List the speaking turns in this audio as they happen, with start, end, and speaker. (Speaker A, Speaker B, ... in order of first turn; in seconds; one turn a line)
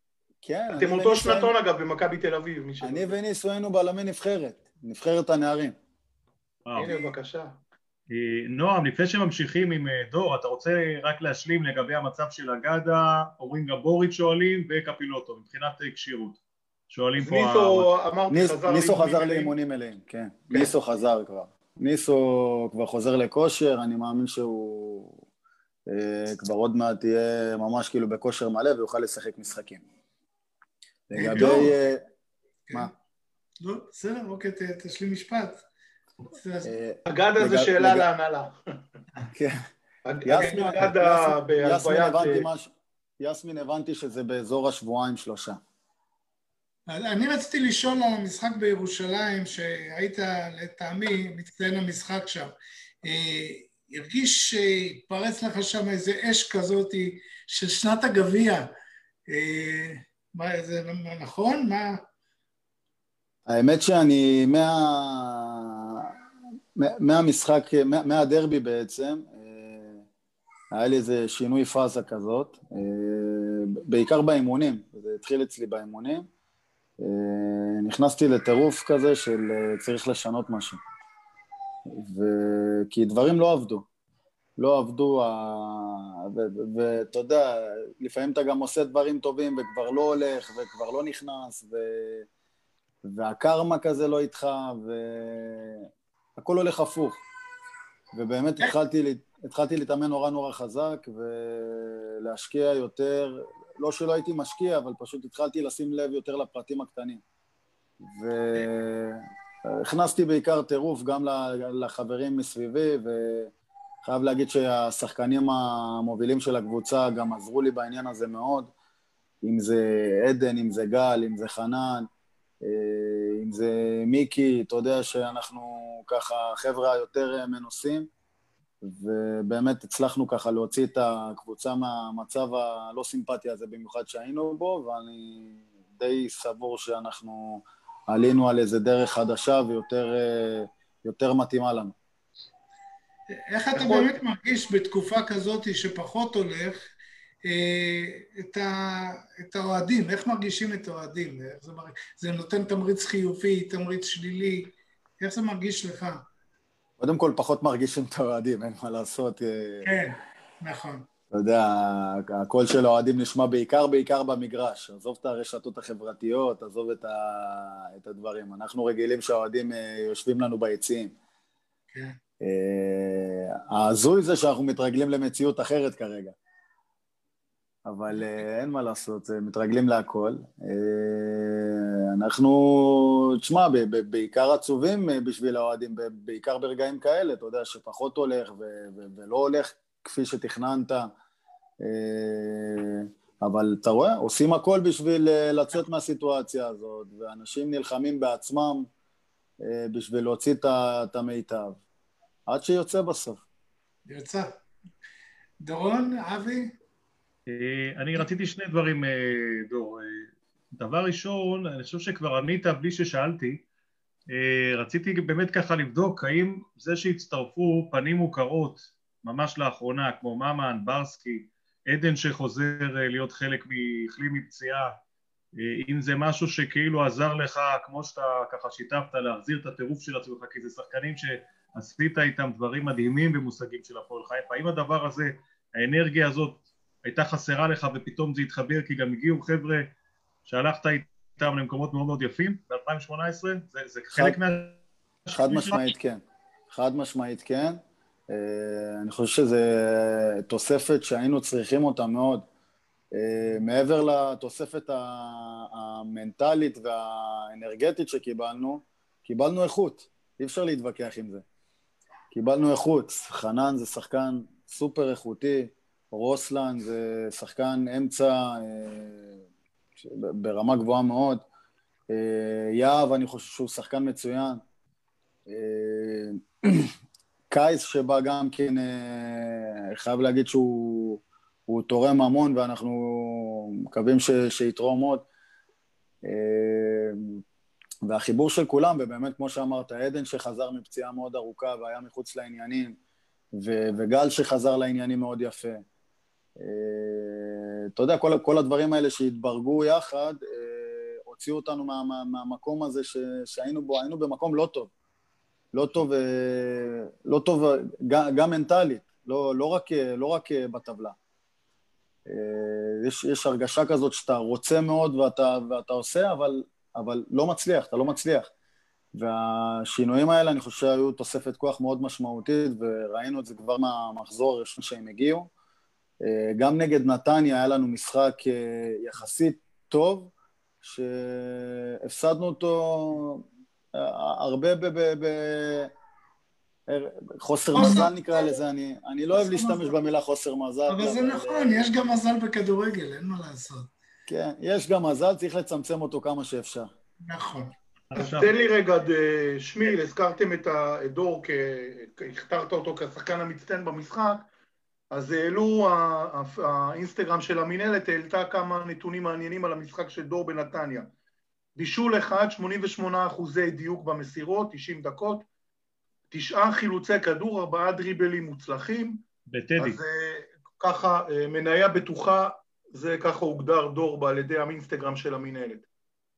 Speaker A: 0.4-1.5
Speaker B: 0.8-3.1
Speaker A: 2.8-5.8
Speaker C: 6.7-7.0
Speaker B: 6.8-7.5
Speaker C: 8.1-16.4
Speaker C: 16.9-17.9
Speaker B: 17.2-19.5
Speaker A: 18.3-25.2
Speaker A: 25.9-29.8
Speaker A: 31.1-32.0
Speaker D: 31.1-31.7
Speaker D: 33.6-35.6
Speaker D: 36.3-36.7
Speaker A: 36.6-38.1
Speaker B: 37.1-38.6
Speaker A: 39.3-39.6
Speaker B: 40.1-42.5
Speaker A: 40.2-45.6
Speaker D: 40.4-40.8
Speaker D: 46.9-52.5
Speaker D: 53.0-58.7
Speaker D: 59.3-62.0
Speaker A: 63.5-66.1
Speaker A: 66.8-70.0
Speaker A: 70.7-76.3
Speaker A: 77.0-80.8
Speaker A: 81.9-83.9
Speaker A: 84.6-92.3
Speaker A: 93.0-97.2
Speaker A: 98.1-107.2
Speaker A: 108.0-109.2
Speaker A: 109.8-113.5
Speaker A: 114.0-118.7
Speaker A: 119.4-122.1
Speaker A: 122.6-128.1
Speaker A: 128.8-141.9
Speaker D: 143.5-146.8
Speaker B: 143.8-144.2
Speaker D: 147.5-156.2
Speaker A: 157.0-159.9
Speaker D: 159.8-161.1
Speaker A: 161.3-171.1
Speaker A: 172.4-176.3
Speaker A: 177.9-191.1
Speaker A: 191.8-198.9
Speaker A: 199.6-201.8
Speaker A: 202.5-203.4
Speaker D: 204.1-204.5
Speaker D: 205.6-206.7
Speaker C: 207.5-213.6
Speaker C: 214.3-224.9
Speaker C: 225.6-239.9
Speaker C: 240.5-245.8
Speaker A: 245.3-252.5
Speaker A: 253.1-261.4
Speaker A: 262.3-269.4
Speaker A: 270.0-271.4
Speaker A: 272.1-274.6
Speaker A: 275.5-276.9
Speaker A: 277.5-285.3
Speaker A: 286.2-287.2
Speaker A: 288.1-293.0
Speaker A: 293.5-295.8
Speaker A: 296.6-304.9
Speaker A: 305.7-311.1
Speaker A: 312.3-318.5
Speaker A: 319.1-325.5
Speaker A: 326.2-330.3
Speaker A: 330.8-335.9
Speaker A: 336.9-341.8
Speaker D: 337.8-338.1
Speaker D: 339.3-339.9
Speaker D: 340.9-343.9
Speaker A: 344.3-346.9
Speaker D: 347.2-347.7
Speaker C: 348.1-348.6
Speaker B: 348.2-354.5
Speaker B: 355.1-361.1
Speaker B: 361.8-365.4
Speaker B: 366.3-369.2
Speaker C: 369.5-370.0
Speaker B: 369.8-375.8